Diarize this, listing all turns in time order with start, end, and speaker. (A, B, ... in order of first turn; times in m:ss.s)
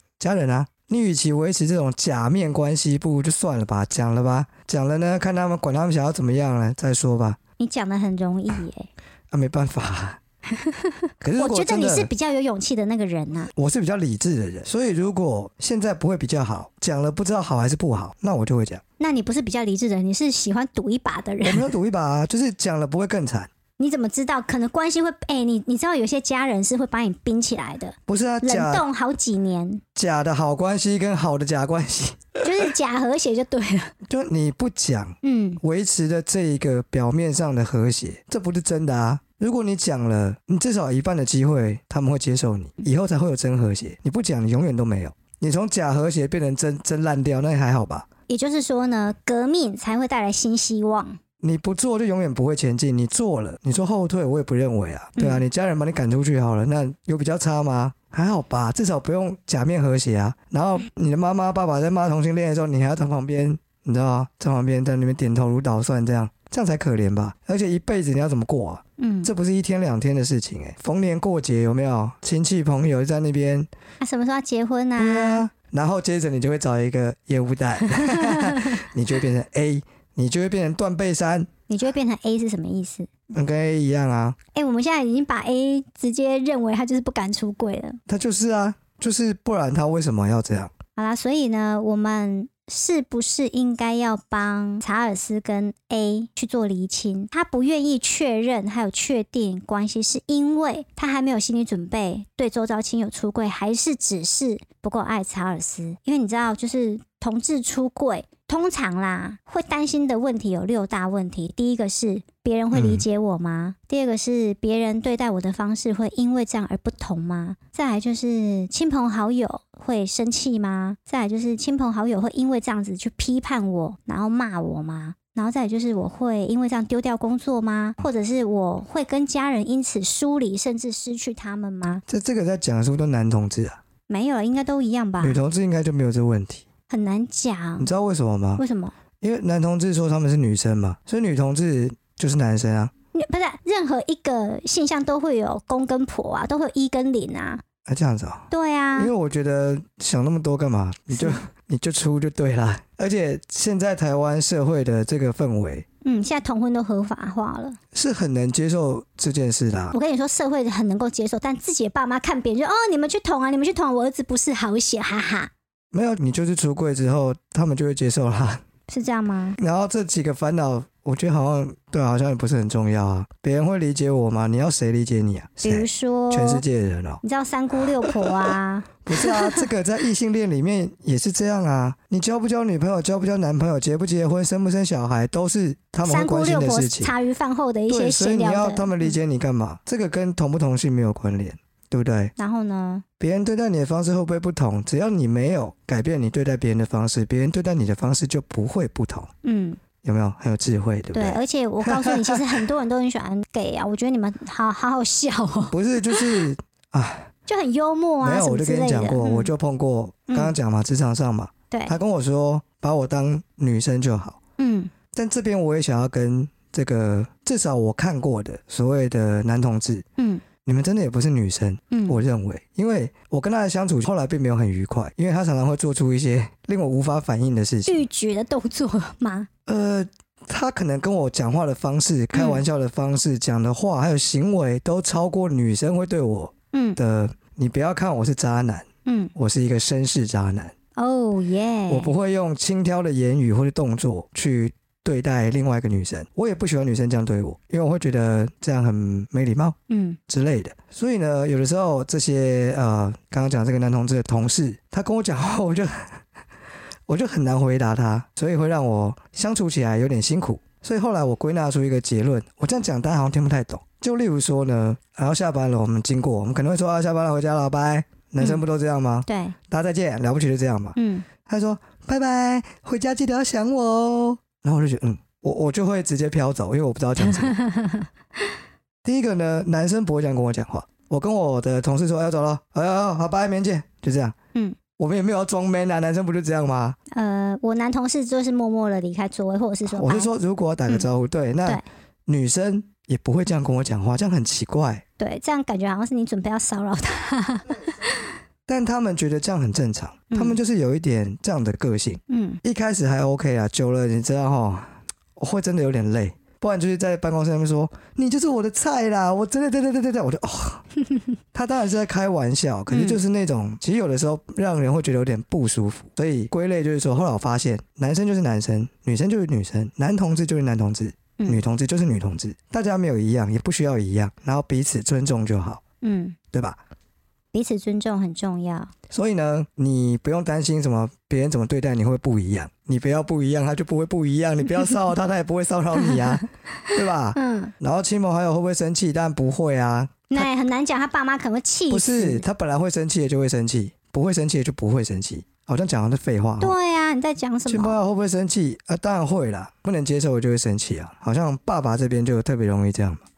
0:00.2-0:07.4 A
0:07.6-0:08.9 B
0:09.3-0:10.2 A
0:10.5-0:13.5 B
0:11.2-0:12.1 A
0:13.5-0:18.8 A
0:19.0-0:21.7 B
0:21.4-0:23.5 A
0:23.8-0:29.8 B
0:28.1-0:28.8 A
0:30.0-0:32.7 A
0:32.4-0:33.9 B
0:34.0-0:48.1 A
0:35.2-0:35.6 B
0:48.3-0:51.2 B
0:51.4-1:13.7 A
0:55.2-0:55.4 B
1:09.0-1:09.3 B
1:14.0-1:15.4 B
1:15.0-1:21.5 A
1:18.0-1:18.8 B
1:21.7-1:23.1 B
1:23.3-1:24.4 A
1:24.5-1:28.0 B
1:28.1-1:30.7 A
1:31.0-2:12.0 B
1:52.7-1:53.0 A
2:12.1-2:13.8 A
2:14.1-2:15.4 B
2:15.2-2:16.6 A
2:16.9-2:17.9 B
2:17.8-2:18.6 A
2:18.6-2:19.0 B
2:19.2-2:22.9 A
2:23.2-2:27.6 B
2:27.9-2:35.9 A
2:28.5-2:29.1 B
2:36.0-2:37.8 B
2:37.9-2:40.0 A
2:39.9-2:45.5 B
2:45.9-2:48.6 A
2:48.9-2:49.6 B
2:49.6-2:57.2 A
2:55.6-2:56.6 B
2:57.2-2:59.7 B
2:58.0-3:07.1 A
3:06.0-3:09.2 B
3:07.9-3:12.3 A
3:12.4-3:13.0 B
3:13.2-3:19.3 A
3:19.4-3:19.8 B
3:20.0-3:22.6 A
3:21.1-3:26.4 B
3:25.7-3:27.3 A
3:27.5-3:29.5 B
3:28.2-3:34.4 A
3:30.3-3:30.5 B
3:31.7-3:32.0 B
3:34.6-3:34.9 B
3:35.1-3:40.0 A
3:40.2-3:40.4 B
3:40.6-3:48.1 A
3:41.9-3:42.2 B
3:47.9-3:49.5 B
3:49.7-4:00.7 A
3:52.3-3:52.6 B
3:56.7-3:57.0 B
3:59.1-3:59.3 B
4:01.0-4:02.1 B
4:01.9-4:09.8 A
4:09.9-4:10.2 B
4:10.3-4:16.2 A
4:17.1-4:37.6 A
4:29.3-4:29.6 B
4:31.0-4:31.3 B
4:37.2-4:38.1 B
4:39.0-4:44.4 A
4:45.0-4:47.0 A
4:47.1-4:50.3 B
4:49.9-4:55.0 A
4:55.2-4:58.3 B
4:58.7-5:10.8 A
5:00.3-5:00.6 B
5:02.3-5:02.6 B
5:11.5-5:25.8 A
5:12.9-5:13.2 B
5:26.0-5:26.4 B
5:26.5-5:26.8 A
5:27.5-5:28.9 B
5:29.1-5:40.5 A
5:37.4-5:37.7 B
5:40.3-5:42.4 B
5:41.9-5:46.8 A
5:46.6-5:48.0 B
5:47.7-5:53.2 A